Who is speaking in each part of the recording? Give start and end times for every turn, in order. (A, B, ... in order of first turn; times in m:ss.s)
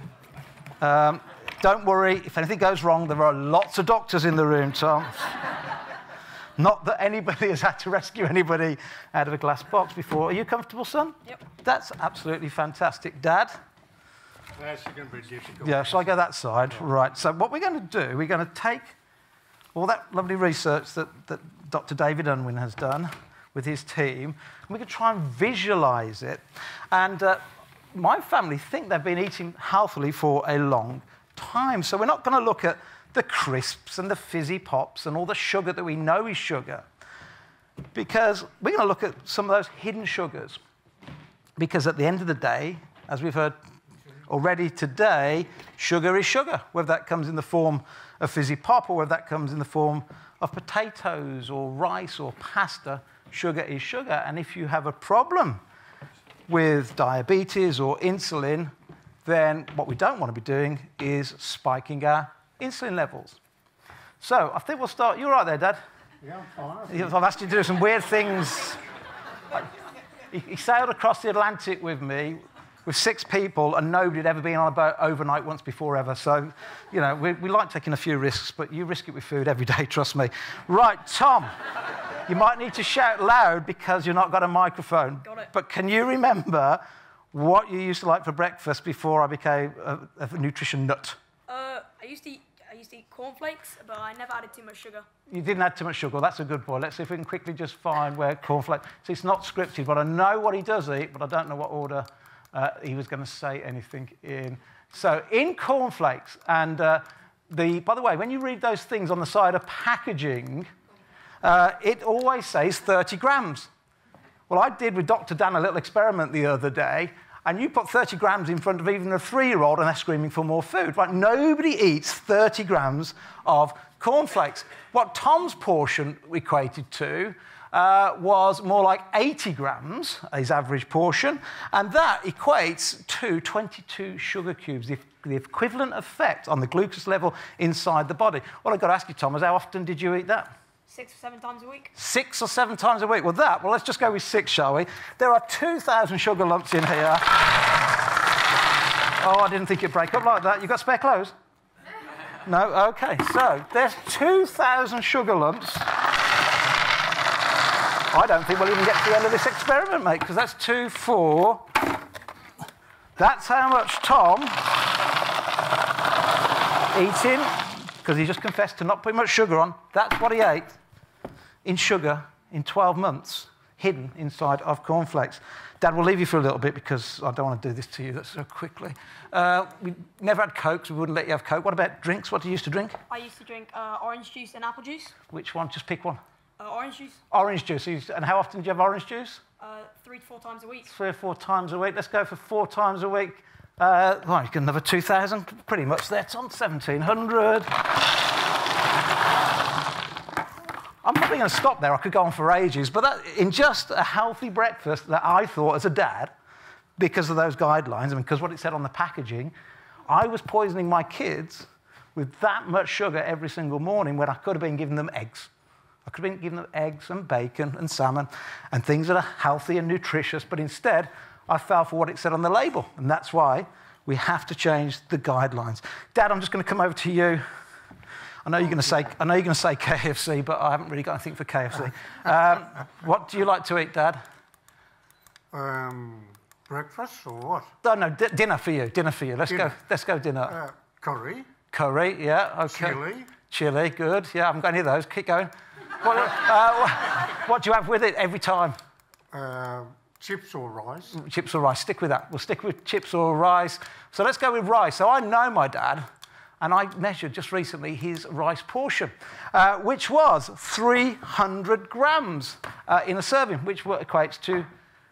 0:00.8-0:05.3 A
0:06.6-0:13.5 A
0:14.6-0:15.8 B
0:15.6-0:18.9 A
0:19.7-0:27.4 A
0:27.9-0:36.8 A
0:37.9-0:40.6 A
0:41.6-0:43.6 A
0:44.3-0:55.6 A
0:56.5-0:58.7 A
0:59.2-1:03.4 A
1:04.2-1:05.8 A
1:06.2-1:07.0 B
1:06.9-1:08.8 A
1:10.3-1:21.5 A
1:22.3-1:31.2 A
1:31.5-1:35.1 C
1:35.3-1:50.7 A
1:51.4-1:53.7 A
1:54.5-2:20.5 A
2:20.9-2:21.9 C
2:22.0-2:27.3 A
2:29.2-2:31.3 A
2:32.5-2:35.9 A
2:38.1-2:41.7 A
2:43.2-2:44.6 A
2:46.9-2:50.7 A
2:51.6-3:03.0 A
3:03.1-3:05.2 C
3:05.3-3:06.2 A
3:06.6-3:07.2 C
3:07.3-3:09.4 A
3:09.6-3:10.9 C
3:10.9-3:17.8 A
3:21.0-3:26.3 A
3:27.0-3:29.5 A
3:30.1-3:35.5 A
3:36.1-3:47.4 A
3:48.4-3:54.2 A
3:55.5-3:57.7 B
3:57.8-4:00.6 A
4:00.6-4:01.5 B
4:01.7-4:08.8 A
4:02.8-4:03.3 B
4:09.3-4:11.2 B
4:11.1-4:16.0 A
4:16.6-4:24.7 A